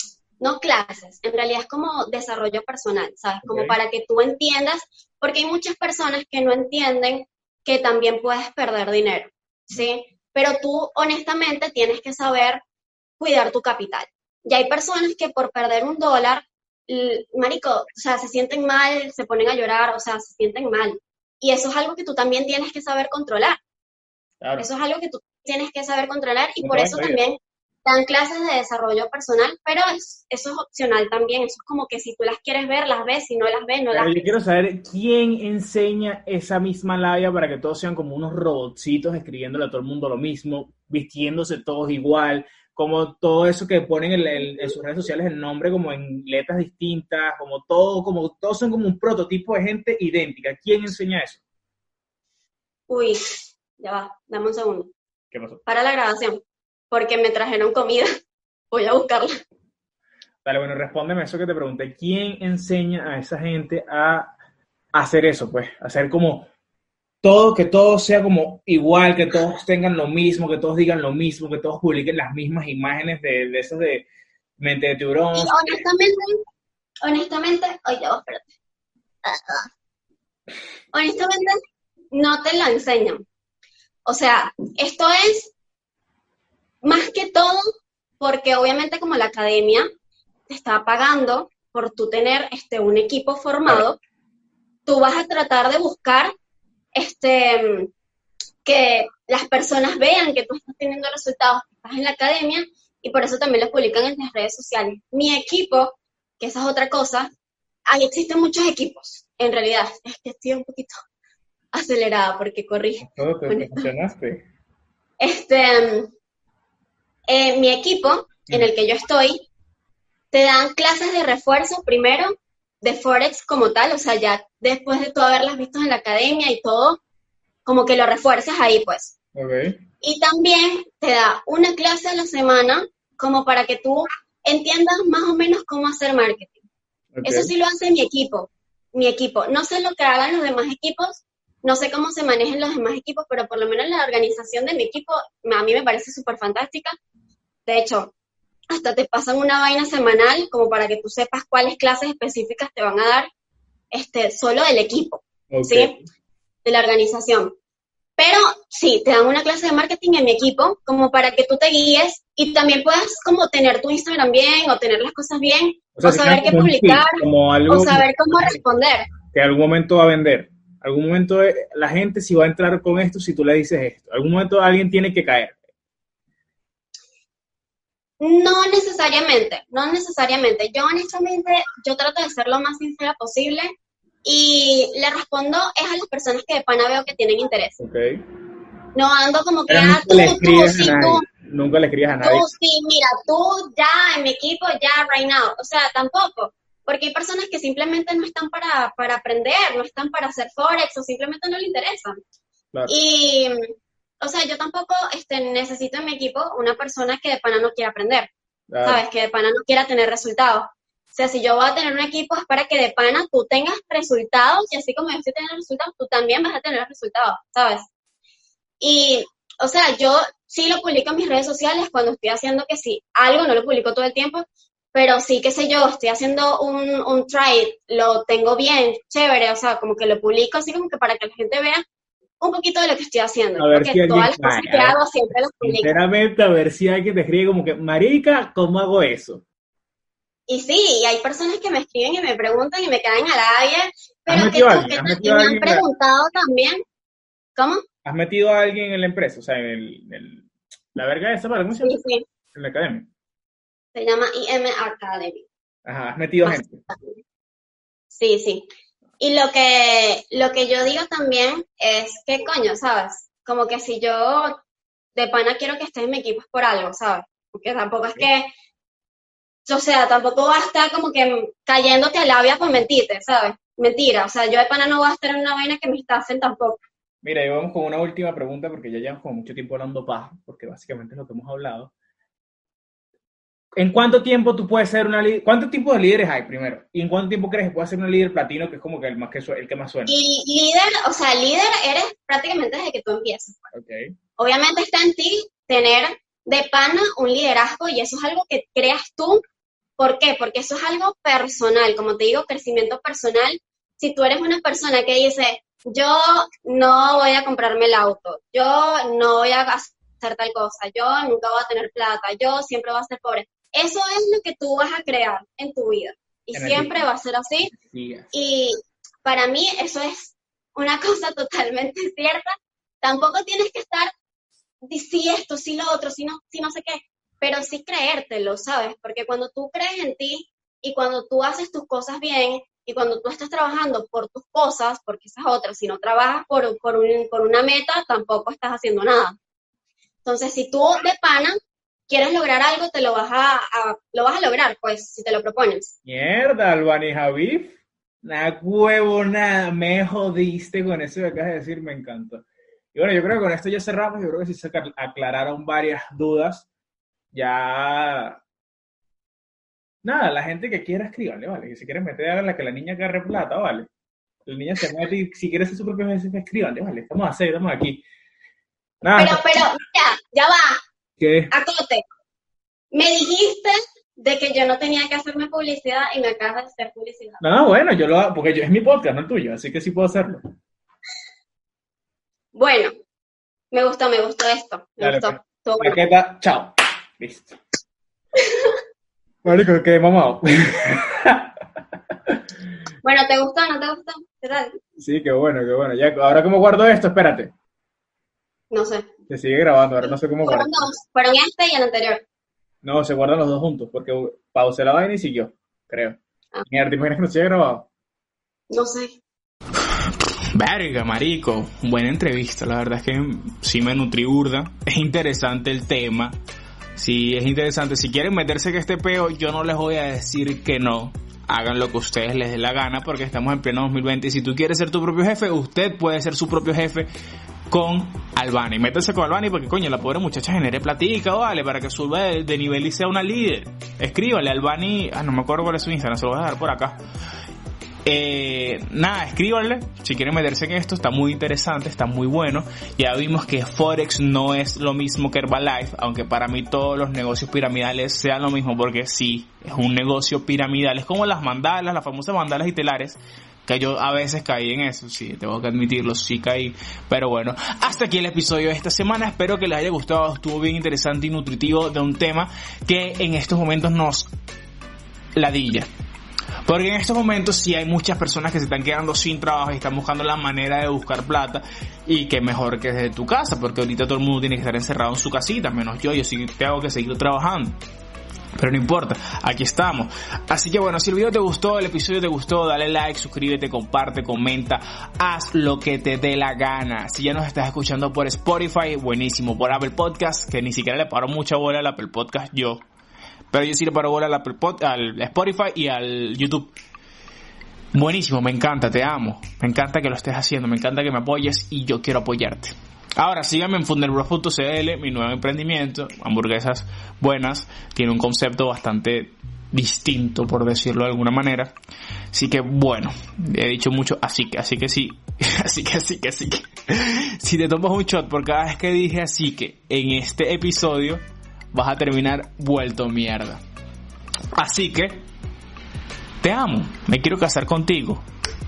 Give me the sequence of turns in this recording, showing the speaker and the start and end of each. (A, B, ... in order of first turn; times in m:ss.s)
0:00.4-0:12.6 A
0:03.4-0:03.8 B
0:13.2-0:23.6 A
0:24.4-0:24.7 B
0:24.6-0:34.4 A
0:26.6-0:27.2 B
0:33.9-0:51.4 B
0:52.9-0:54.9 A
0:55.3-0:55.6 B
0:55.7-0:58.1 A
0:58.7-0:59.3 A
1:00.4-1:04.3 B
1:04.9-1:06.5 B
1:07.2-1:14.0 B
1:14.6-1:15.8 B
1:15.3-1:16.4 A
1:17.0-1:18.5 A
1:19.2-1:19.7 A
1:20.9-1:21.6 A
1:22.1-1:23.2 A
1:24.1-1:25.5 A
1:26.8-1:27.6 A
1:28.2-1:29.9 A
1:30.5-1:34.0 A
1:34.9-1:36.3 A
1:37.0-1:37.9 A
1:38.6-1:47.3 A
1:47.9-1:51.0 A
1:51.7-1:53.9 A
1:53.0-1:54.4 B
1:55.2-1:56.1 A
1:57.3-1:59.5 A
2:00.3-2:07.0 A
2:07.7-2:09.2 A
2:09.4-2:09.8 B
2:10.0-2:16.6 A
2:17.2-2:17.5 B
2:17.2-2:27.0 A
2:27.7-2:28.1 A
2:28.7-2:33.3 A
2:33.9-2:35.9 A
2:35.5-2:36.1 B
2:36.6-2:37.5 A
2:38.2-2:49.1 A
2:46.0-2:48.6 B
2:49.3-2:55.6 B
2:58.2-3:03.7 A
3:04.2-3:07.8 A
3:07.8-3:08.2 B
3:09.0-3:11.2 A
3:09.7-3:12.5 B
3:12.2-3:22.2 A
3:22.9-3:23.7 A
3:24.2-3:28.3 A
3:28.7-3:29.0 B
3:28.8-3:37.9 A
3:38.8-3:51.8 A
3:52.4-3:55.9 A
3:53.6-3:55.0 B
3:55.6-3:59.4 B
4:00.5-4:06.8 A
4:04.3-4:05.9 B
4:07.6-4:07.8 A
4:08.0-4:12.0 B
4:11.8-4:12.2 A
4:12.5-4:13.1 B
4:14.0-4:15.5 A
4:15.8-4:16.8 B
4:16.4-4:17.1 A
4:18.1-4:18.7 A
4:19.2-4:24.6 A
4:25.2-4:28.5 A
4:29.7-4:36.8 A
4:37.2-4:41.9 B
4:43.8-4:50.1 B
4:50.1-4:53.7 A
4:53.7-4:54.1 B
4:54.4-4:59.4 A
5:00.0-5:17.7 A
5:16.5-5:17.1 B
5:17.7-5:18.3 B
5:18.3-5:24.1 A
5:24.9-5:39.4 A
5:40.2-5:41.6 A
5:42.1-5:45.9 A
5:46.0-5:56.7 B
5:57.3-5:58.4 B
6:00.0-6:03.9 B
6:04.5-6:08.0 B
6:09.0-6:09.7 B
6:09.2-6:10.8 A
6:11.2-6:11.5 B
6:11.5-6:12.0 A
6:12.9-6:17.4 A
6:17.4-6:20.5 B
6:22.5-6:22.9 A
6:23.7-6:26.0 A
6:25.0-6:27.6 B
6:28.4-6:28.8 A
6:29.4-6:31.5 B
6:33.0-6:34.7 A
6:35.0-6:37.5 B
6:38.7-6:39.1 A
6:39.3-6:41.0 B
6:40.4-6:42.2 A
6:42.8-6:47.9 B
6:48.7-6:49.2 A
6:50.5-6:56.4 B
6:57.0-7:07.1 B
7:07.7-7:17.0 B
7:18.0-7:44.3 B
7:45.4-7:45.9 B
7:46.7-7:57.8 B
7:58.6-8:12.8 B
8:13.5-8:16.7 B
8:17.9-8:31.7 B
8:32.3-8:41.2 B
8:41.7-8:43.6 B
8:44.6-8:45.2 B
8:46.4-8:48.2 B